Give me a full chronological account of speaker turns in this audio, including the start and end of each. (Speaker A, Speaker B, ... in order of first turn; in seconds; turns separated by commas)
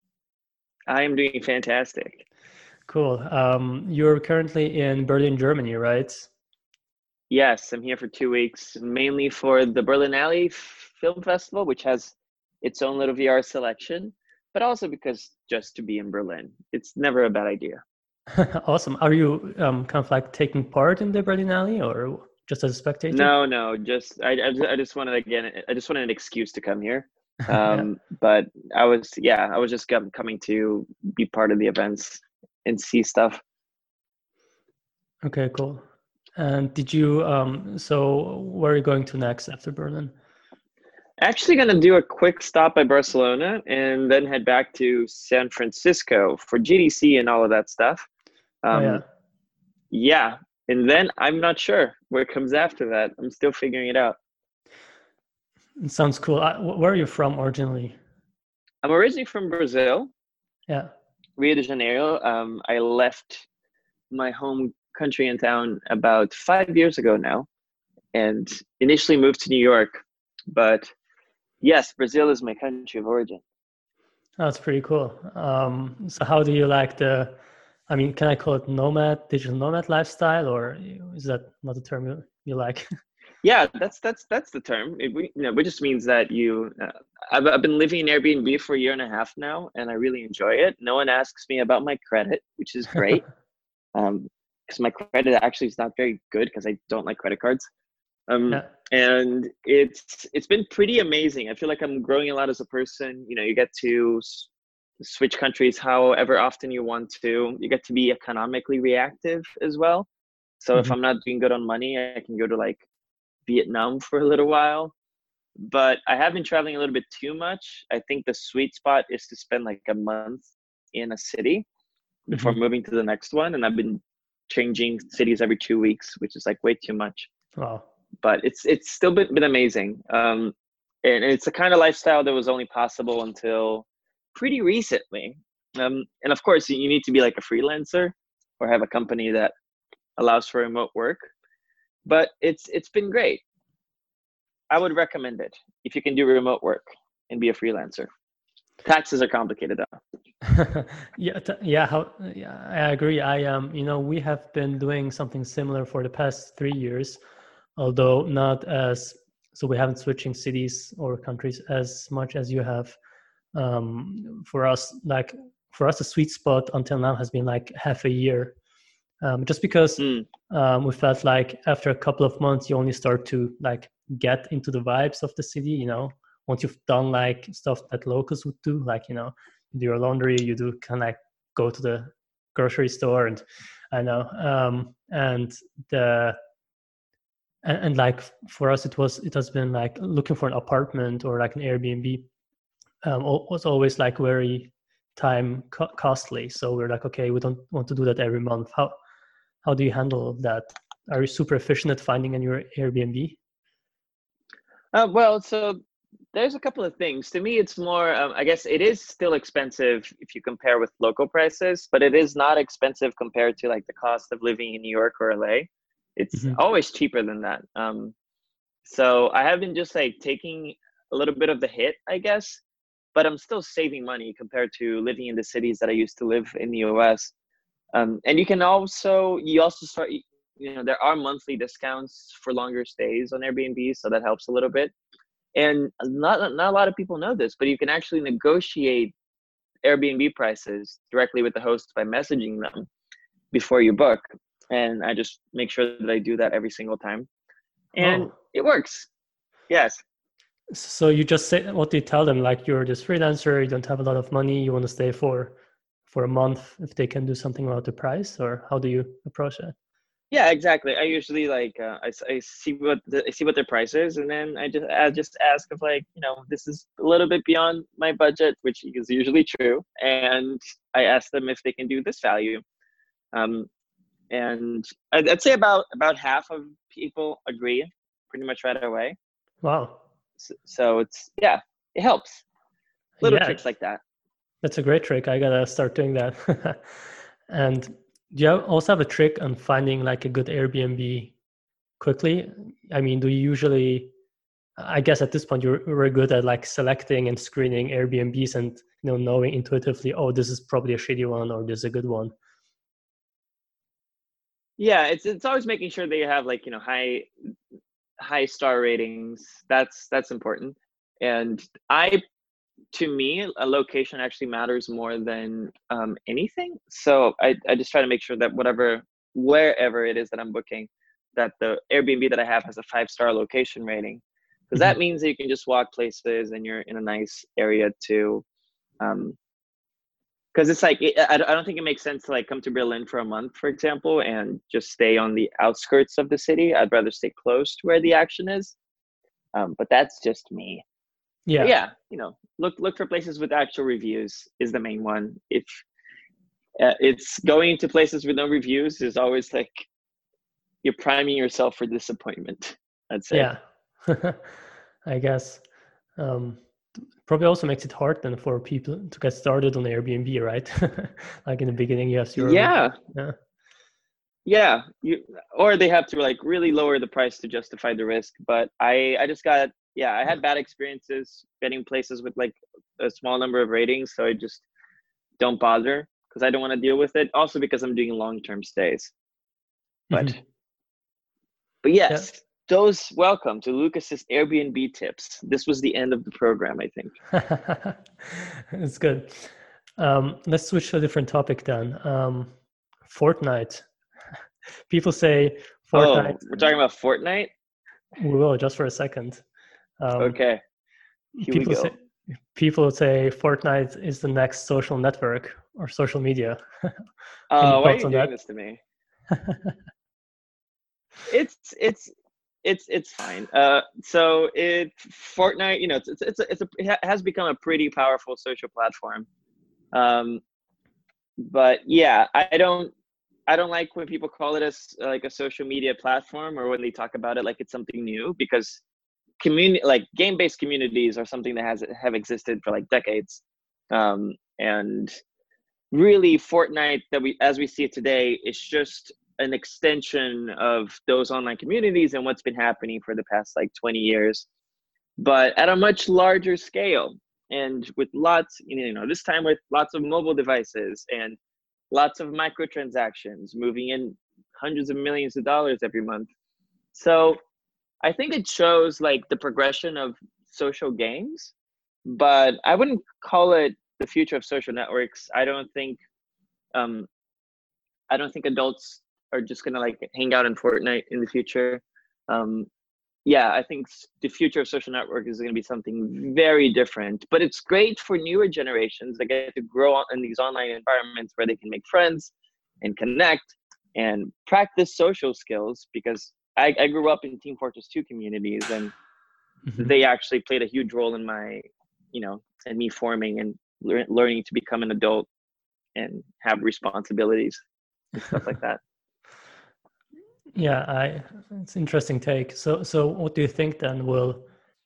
Speaker A: 0.9-2.2, Speaker B: 2.9-6.3, Speaker A: 7.3-17.8, Speaker B: 18.4-23.3, Speaker A: 23.1-33.4, Speaker B: 27.6-27.9, Speaker B: 35.2-35.9, Speaker B: 36.4-40.1, Speaker A: 41.2-48.1, Speaker A: 48.6-49.0, Speaker B: 48.7-49.0, Speaker A: 49.9-54.2, Speaker B: 55.8-58.0, Speaker A: 58.8-60.1, Speaker A: 61.4-63.5, Speaker A: 64.1-67.5, Speaker A: 68.1-70.9, Speaker A: 71.6-73.4, Speaker B: 74.4-77.4, Speaker B: 77.9-82.9, Speaker A: 83.4-93.2, Speaker A: 94.0-97.7, Speaker A: 98.3-110.1, Speaker A: 110.6-112.8, Speaker A: 113.5-114.9, Speaker A: 115.6-121.7, Speaker A: 122.3-127.3, Speaker B: 122.3-122.6, Speaker B: 127.6-127.9, Speaker A: 128.2-139.5, Speaker A: 140.2-141.3, Speaker A: 142.1-143.4, Speaker A: 144.7-148.1, Speaker A: 148.8-150.0, Speaker B: 150.5-157.2, Speaker B: 157.8-163.0, Speaker B: 163.6-168.6, Speaker B: 169.2-186.4, Speaker A: 170.0-170.3, Speaker B: 187.6-192.3, Speaker B: 193.0-198.9, Speaker B: 199.6-203.4, Speaker A: 204.9-205.8, Speaker A: 206.3-218.2, Speaker B: 216.3-216.6, Speaker A: 218.8-222.6, Speaker A: 223.2-227.3, Speaker A: 227.9-234.9, Speaker A: 235.6-239.1, Speaker A: 239.8-242.9, Speaker A: 243.5-247.3, Speaker A: 247.9-249.1, Speaker B: 248.0-248.3, Speaker A: 249.7-250.0, Speaker B: 250.7-255.6, Speaker B: 256.1-259.8, Speaker A: 260.3-272.6, Speaker A: 273.3-273.7, Speaker A: 274.3-279.2, Speaker B: 279.6-280.0, Speaker A: 280.4-282.4, Speaker B: 283.2-283.7, Speaker A: 283.2-284.0, Speaker B: 284.6-291.4, Speaker B: 292.0-294.1, Speaker B: 294.8-302.3, Speaker A: 304.8-307.3, Speaker A: 308.2-312.2, Speaker A: 312.9-328.4, Speaker A: 329.0-329.4, Speaker A: 330.5-338.8, Speaker A: 339.6-340.8, Speaker B: 341.5-341.7, Speaker A: 341.6-345.8, Speaker A: 346.8-349.9, Speaker A: 350.8-353.5, Speaker B: 353.3-355.6, Speaker B: 356.2-356.6, Speaker B: 357.2-363.4, Speaker A: 362.4-362.9, Speaker A: 364.5-374.6, Speaker A: 375.4-379.1, Speaker B: 380.1-380.4, Speaker A: 380.1-380.4, Speaker A: 381.8-387.1, Speaker B: 387.3-392.5, Speaker B: 393.1-393.9, Speaker B: 394.9-396.7, Speaker A: 395.9-397.5, Speaker B: 398.2-399.4, Speaker B: 400.0-400.4, Speaker A: 400.2-400.6, Speaker B: 401.4-402.0, Speaker A: 401.4-401.9, Speaker B: 402.5-407.0, Speaker A: 407.5-408.8, Speaker B: 407.6-408.3, Speaker B: 409.3-409.7, Speaker A: 411.3-412.1, Speaker A: 412.6-419.3, Speaker A: 419.9-420.4, Speaker A: 421.4-422.9, Speaker A: 423.5-428.8, Speaker A: 429.4-435.1, Speaker A: 435.9-444.5, Speaker A: 445.2-451.4, Speaker A: 451.9-456.3, Speaker A: 456.9-457.4, Speaker A: 458.0-461.5, Speaker A: 462.1-466.0, Speaker A: 466.8-467.1, Speaker A: 468.1-472.7, Speaker A: 473.3-488.9, Speaker B: 489.7-489.9, Speaker A: 489.8-495.3, Speaker A: 496.0-497.6, Speaker A: 498.1-498.8, Speaker B: 500.6-504.5